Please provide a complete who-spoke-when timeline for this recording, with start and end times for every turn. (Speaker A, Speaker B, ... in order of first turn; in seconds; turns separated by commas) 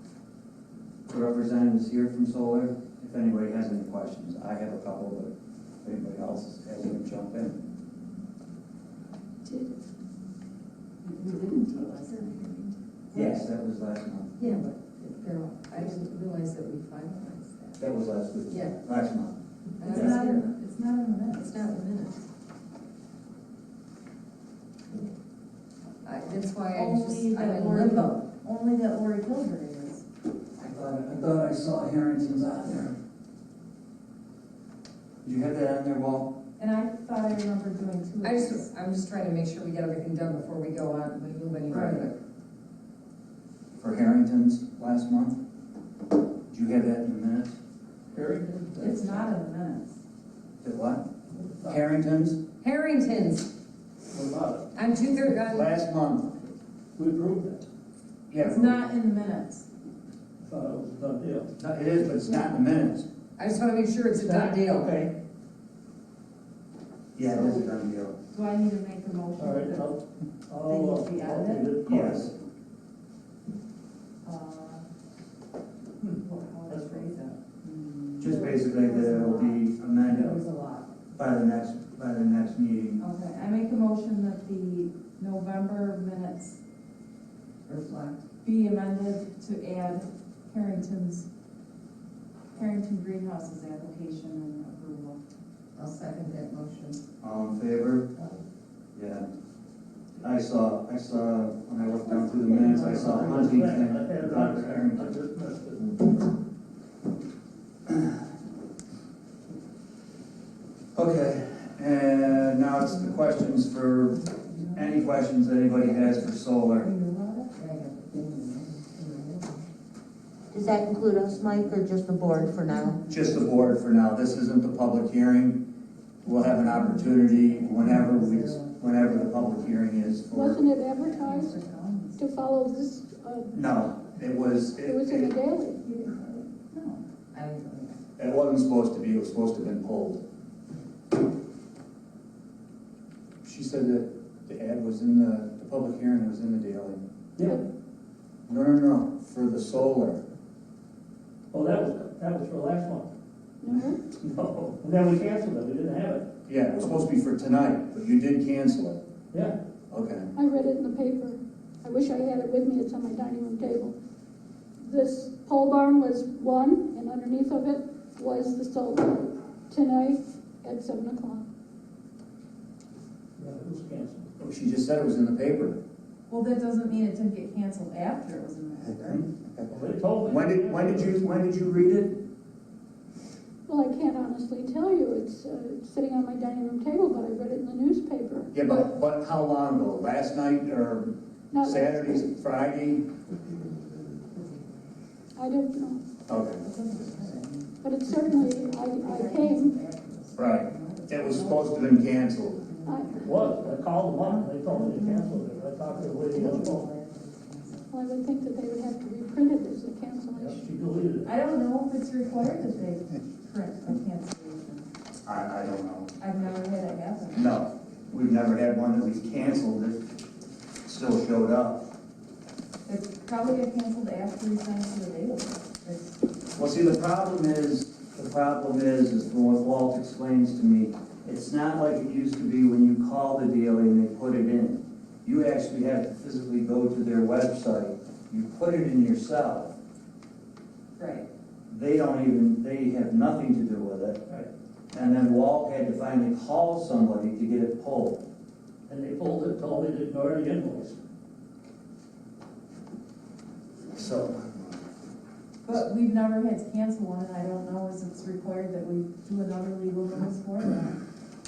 Speaker A: 1.1-5.3, Speaker A: 5.8-7.5, Speaker B: 11.0-13.3, Speaker C: 11.7-12.3, Speaker A: 13.1-14.3, Speaker C: 14.4-17.9, Speaker A: 17.8-19.4, Speaker C: 18.5-18.8, Speaker C: 19.8-20.5, Speaker B: 19.8-21.9, Speaker A: 19.9-20.1, Speaker C: 21.3-22.2, Speaker C: 26.0-28.2, Speaker B: 26.7-30.0, Speaker A: 30.6-32.9, Speaker A: 35.2-36.3, Speaker B: 36.6-38.7, Speaker C: 38.2-42.2, Speaker B: 41.7-42.1, Speaker A: 43.8-45.4, Speaker A: 46.5-47.5, Speaker D: 48.1-49.2, Speaker B: 48.8-50.0, Speaker A: 50.6-51.0, Speaker A: 51.6-52.4, Speaker C: 52.6-53.5, Speaker D: 54.1-54.7, Speaker C: 54.7-55.7, Speaker A: 55.5-56.4, Speaker D: 57.0-57.6, Speaker A: 58.3-58.8, Speaker B: 58.4-59.7, Speaker D: 60.4-61.5, Speaker A: 61.6-63.0, Speaker C: 63.4-64.9, Speaker D: 64.1-65.1, Speaker A: 67.1-68.2, Speaker B: 67.2-67.7, Speaker B: 68.3-69.9, Speaker D: 69.4-72.3, Speaker B: 70.6-71.7, Speaker A: 71.8-72.3, Speaker B: 74.2-74.8, Speaker D: 76.0-77.0, Speaker B: 76.2-80.9, Speaker A: 78.2-80.4, Speaker A: 81.1-83.0, Speaker B: 83.0-86.6, Speaker C: 87.7-88.2, Speaker B: 88.4-91.3, Speaker B: 92.5-95.2, Speaker C: 95.7-97.0, Speaker A: 97.2-98.1, Speaker A: 98.9-99.2, Speaker A: 100.2-105.1, Speaker D: 102.5-106.1, Speaker A: 110.9-116.9, Speaker B: 114.5-114.8, Speaker B: 116.8-117.5, Speaker C: 117.5-119.7, Speaker E: 120.5-123.0, Speaker C: 121.1-121.6, Speaker A: 123.1-125.6, Speaker A: 126.2-130.6, Speaker C: 127.4-129.8, Speaker F: 130.3-131.5, Speaker B: 131.0-132.2, Speaker F: 132.2-133.5, Speaker A: 133.5-135.4, Speaker F: 134.8-135.8, Speaker B: 135.8-137.0, Speaker C: 137.3-138.0, Speaker A: 138.2-140.2, Speaker A: 143.4-147.0, Speaker D: 147.4-147.6, Speaker A: 148.5-150.2, Speaker D: 151.5-153.1, Speaker F: 153.6-154.1, Speaker D: 154.1-156.3, Speaker A: 156.5-159.0, Speaker D: 159.3-159.6, Speaker A: 159.9-160.3, Speaker F: 160.3-163.9, Speaker F: 164.8-171.4, Speaker D: 173.4-174.3, Speaker A: 174.4-175.8, Speaker B: 176.3-179.3, Speaker A: 179.1-179.7, Speaker D: 179.7-181.2, Speaker A: 180.2-182.2, Speaker F: 183.7-188.9, Speaker A: 188.5-193.1, Speaker F: 191.5-192.1, Speaker B: 193.7-194.8, Speaker F: 195.3-196.0, Speaker A: 196.3-196.6, Speaker B: 196.6-207.9, Speaker F: 197.8-199.7, Speaker A: 200.3-202.6, Speaker F: 202.8-203.2, Speaker D: 203.2-206.9, Speaker F: 207.9-210.6, Speaker D: 210.3-211.3, Speaker B: 211.2-214.9, Speaker A: 215.2-216.1, Speaker B: 216.2-217.6, Speaker A: 217.3-220.0, Speaker A: 220.8-221.9, Speaker B: 222.8-226.3, Speaker A: 226.6-239.7, Speaker B: 241.0-241.3, Speaker A: 241.7-244.2, Speaker A: 244.9-248.2, Speaker D: 248.9-251.0, Speaker A: 253.9-254.8, Speaker B: 255.6-261.0